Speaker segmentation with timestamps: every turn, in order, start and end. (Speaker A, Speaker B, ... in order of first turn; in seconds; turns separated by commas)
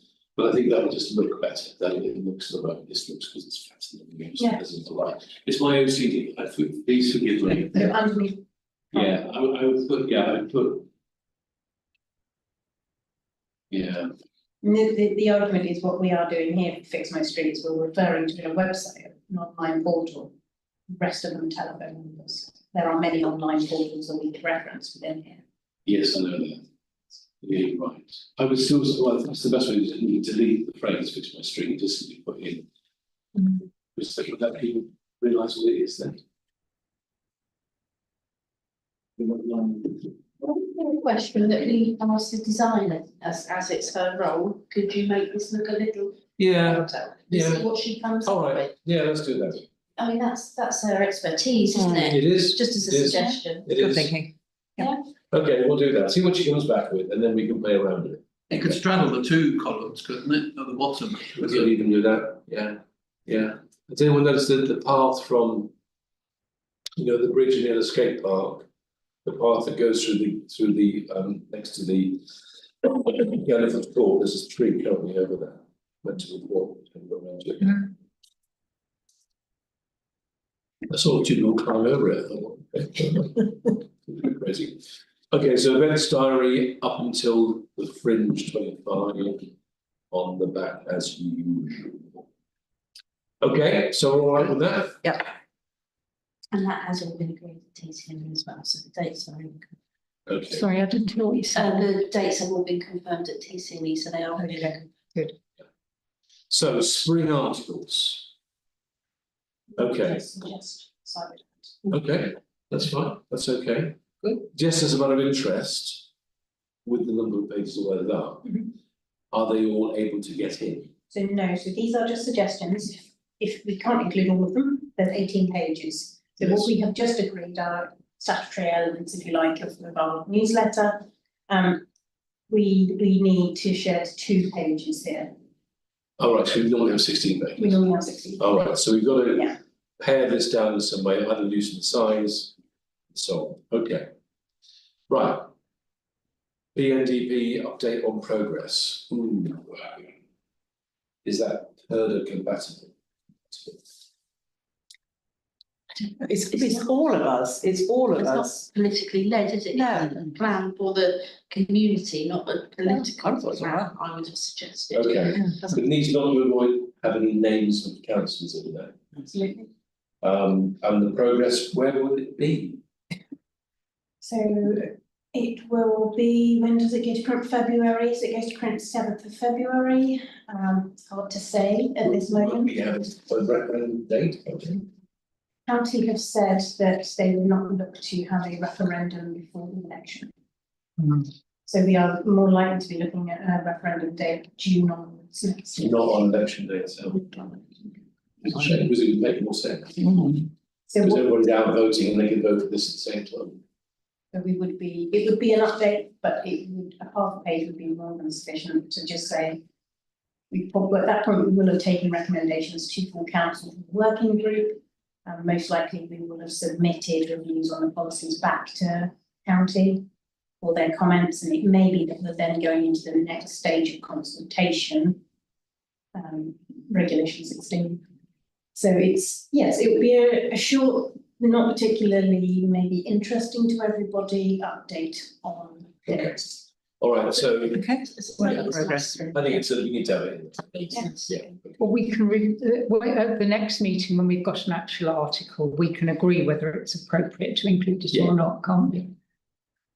Speaker A: 0.3-7.9, Speaker B: 7.7-9.2, Speaker A: 8.9-10.9, Speaker A: 13.7-14.1, Speaker B: 14.6-20.3, Speaker B: 20.9-25.4, Speaker A: 25.9-26.6, Speaker A: 27.4-32.6, Speaker A: 34.0-36.2, Speaker A: 39.2-40.0, Speaker C: 40.4-48.7, Speaker A: 46.4-47.7, Speaker A: 48.2-49.6, Speaker C: 50.0-53.7, Speaker D: 51.7-52.1, Speaker A: 52.0-54.1, Speaker D: 53.7-54.3, Speaker A: 55.3-58.6, Speaker E: 58.5-61.6, Speaker A: 61.3-65.7, Speaker A: 67.0-68.7, Speaker A: 69.2-72.2, Speaker A: 72.8-77.9, Speaker A: 80.9-89.5, Speaker A: 90.1-92.2, Speaker A: 93.4-95.1, Speaker C: 96.5-99.7, Speaker A: 100.3-100.7, Speaker F: 100.5-101.8, Speaker C: 101.5-104.9, Speaker F: 104.4-105.3, Speaker A: 106.5-108.3, Speaker B: 109.7-111.8, Speaker A: 109.8-110.3, Speaker A: 111.9-116.0, Speaker A: 116.8-118.7, Speaker A: 119.3-120.9, Speaker B: 121.1-131.8, Speaker B: 132.5-135.3, Speaker A: 136.2-137.8, Speaker B: 137.6-138.7, Speaker A: 138.4-142.5, Speaker A: 143.1-144.1, Speaker A: 145.1-145.5, Speaker A: 146.7-150.1, Speaker A: 151.2-152.9, Speaker A: 153.5-153.8, Speaker D: 156.0-158.6, Speaker C: 158.1-165.4, Speaker D: 159.7-160.3, Speaker D: 162.8-163.9, Speaker A: 164.9-168.9, Speaker B: 169.2-169.7, Speaker A: 170.2-172.8, Speaker B: 174.2-182.8, Speaker A: 182.0-184.8, Speaker B: 185.7-190.3, Speaker B: 191.7-196.1, Speaker A: 195.8-197.5, Speaker B: 197.3-197.6, Speaker A: 198.4-200.3, Speaker B: 200.9-201.2, Speaker A: 201.0-203.6, Speaker B: 204.3-209.6, Speaker B: 210.5-220.1, Speaker B: 220.6-225.2, Speaker B: 226.1-228.0, Speaker B: 228.7-236.7, Speaker A: 236.1-237.9, Speaker D: 237.7-239.3, Speaker B: 238.4-239.4, Speaker A: 238.4-238.8, Speaker A: 239.3-241.7, Speaker B: 240.9-241.2, Speaker F: 241.8-249.1, Speaker A: 248.1-248.4